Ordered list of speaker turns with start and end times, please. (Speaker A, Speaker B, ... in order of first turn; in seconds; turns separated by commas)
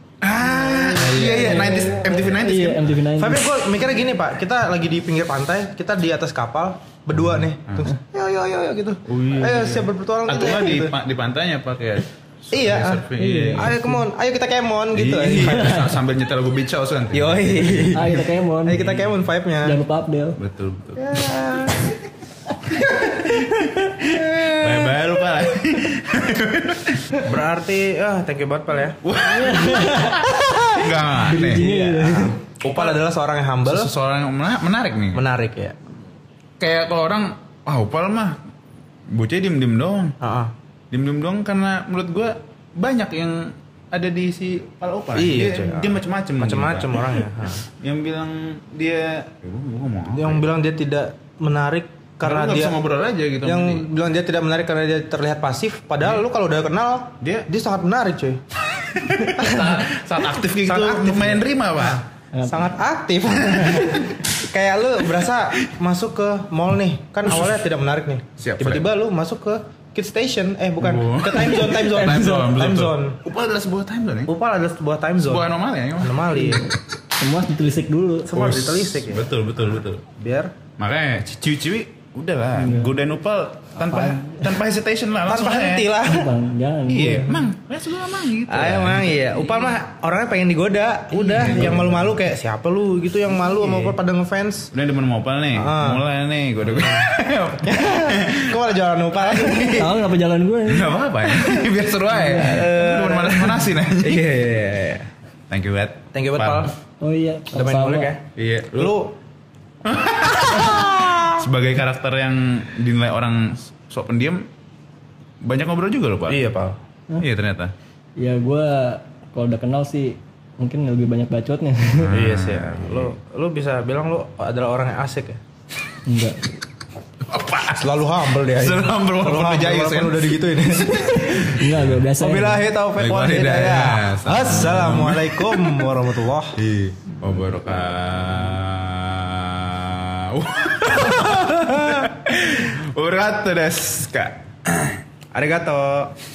Speaker A: 0.2-2.9, Speaker B: 0.4-3.5, Speaker C: 0.5-1.9, Speaker C: 3.2-10.9, Speaker A: 7.2-7.9, Speaker A: 9.1-13.8, Speaker C: 12.5-16.0, Speaker B: 13.2-14.1, Speaker A: 14.9-18.2, Speaker B: 15.4-15.9, Speaker C: 17.1-19.8, Speaker B: 17.9-18.9, Speaker A: 18.8-19.1, Speaker B: 19.6-20.4, Speaker A: 20.4-21.3, Speaker C: 21.0-21.9, Speaker A: 22.7-27.3, Speaker C: 24.0-25.0, Speaker C: 27.1-29.0, Speaker A: 29.0-31.7, Speaker B: 29.1-30.4, Speaker C: 30.4-33.9, Speaker B: 31.1-32.4, Speaker A: 32.6-33.0, Speaker A: 33.6-35.3, Speaker C: 35.1-35.8, Speaker A: 36.6-38.4, Speaker A: 39.1-40.2, Speaker C: 40.2-40.5, Speaker A: 40.9-50.5, Speaker C: 45.1-47.6, Speaker C: 50.1-52.8, Speaker A: 52.2-53.9, Speaker C: 53.4-58.4, Speaker A: 57.2-57.5, Speaker A: 58.7-62.0, Speaker C: 59.4-59.9, Speaker C: 60.6-73.2, Speaker B: 62.3-62.8, Speaker A: 63.5-64.2, Speaker B: 63.6-64.0, Speaker A: 68.4-68.9, Speaker A: 70.8-74.3, Speaker B: 71.3-72.6, Speaker C: 74.3-75.5, Speaker A: 75.2-76.5, Speaker C: 76.0-76.7, Speaker B: 76.4-78.3, Speaker C: 78.2-80.6, Speaker A: 78.3-80.0, Speaker A: 80.8-86.0, Speaker B: 82.6-82.9, Speaker B: 83.9-84.4, Speaker C: 85.3-86.3, Speaker B: 86.0-87.5, Speaker A: 86.9-89.3, Speaker C: 88.5-94.7, Speaker A: 91.1-91.9, Speaker B: 91.6-92.0, Speaker A: 94.7-98.6, Speaker C: 95.5-96.0, Speaker C: 96.7-97.1, Speaker C: 97.6-100.0, Speaker A: 99.2-99.9, Speaker B: 99.7-101.0, Speaker A: 100.7-104.3, Speaker C: 101.4-105.1, Speaker B: 102.1-102.6, Speaker A: 105.5-106.7, Speaker C: 106.1-106.8, Speaker B: 107.0-108.1, Speaker C: 107.5-108.2, Speaker A: 108.4-109.0, Speaker C: 108.8-109.2, Speaker A: 109.8-114.5, Speaker C: 110.5-111.5, Speaker A: 115.4-116.5, Speaker C: 116.3-116.8, Speaker A: 117.2-117.7, Speaker B: 118.2-122.1, Speaker A: 122.0-123.2, Speaker C: 122.1-125.4, Speaker B: 126.1-126.5, Speaker A: 127.3-132.0, Speaker C: 127.8-131.4, Speaker B: 131.1-132.7, Speaker C: 132.2-136.6, Speaker A: 133.0-135.9, Speaker A: 136.6-145.0, Speaker C: 141.2-142.0, Speaker C: 145.3-146.2